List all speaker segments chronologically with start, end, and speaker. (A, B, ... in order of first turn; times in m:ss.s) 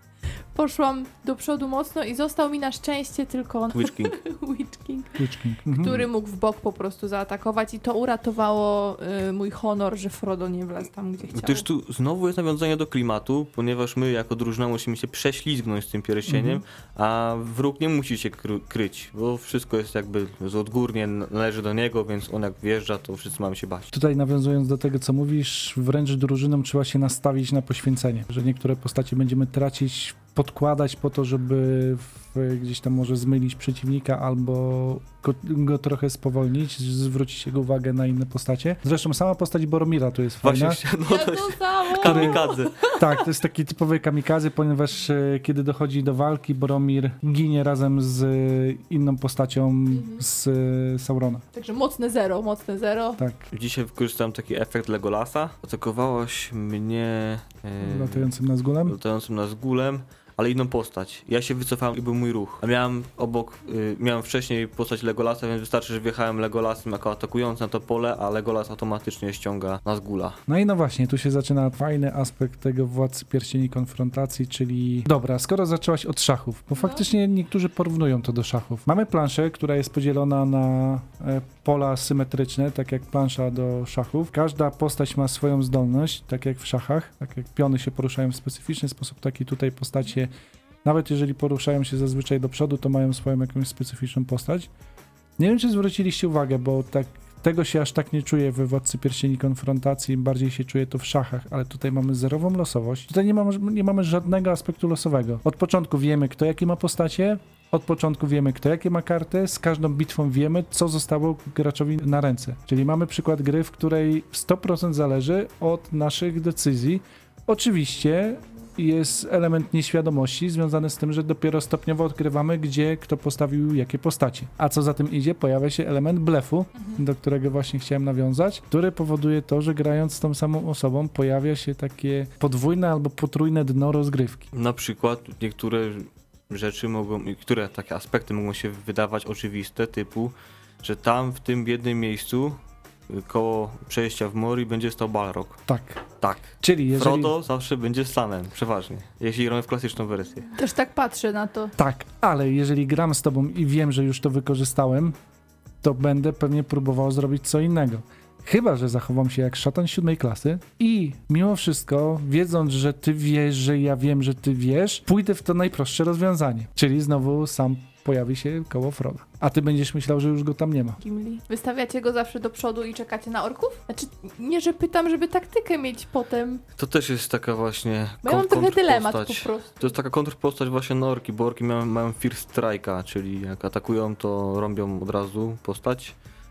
0:00.5-0:11.6 A
0:03.7-0:04.2 B
0:05.2-0:06.1 C
0:11.3-0:23.9 B
0:16.3-0:16.6 C
0:23.9-0:40.8 C
0:40.4-0:42.8 B
0:41.0-0:43.2 A
0:42.0-0:51.4 C
0:49.9-0:50.2 A
0:51.5-0:53.2 A
0:53.2-0:53.5 C
0:53.5-0:58.3 B
0:57.8-0:59.0 C
0:58.8-1:10.4 B
1:10.5-1:30.3 C
1:30.8-1:34.7 C
1:35.4-2:14.5 C
2:14.5-2:25.6 B
2:25.7-2:26.0 C
2:26.2-2:30.5 B
2:26.6-2:27.3 C
2:30.5-2:31.7 A
2:31.8-2:35.2 C
2:35.8-2:51.0 C
2:51.0-2:56.6 A
2:56.8-3:06.1 B
2:58.2-2:59.9 A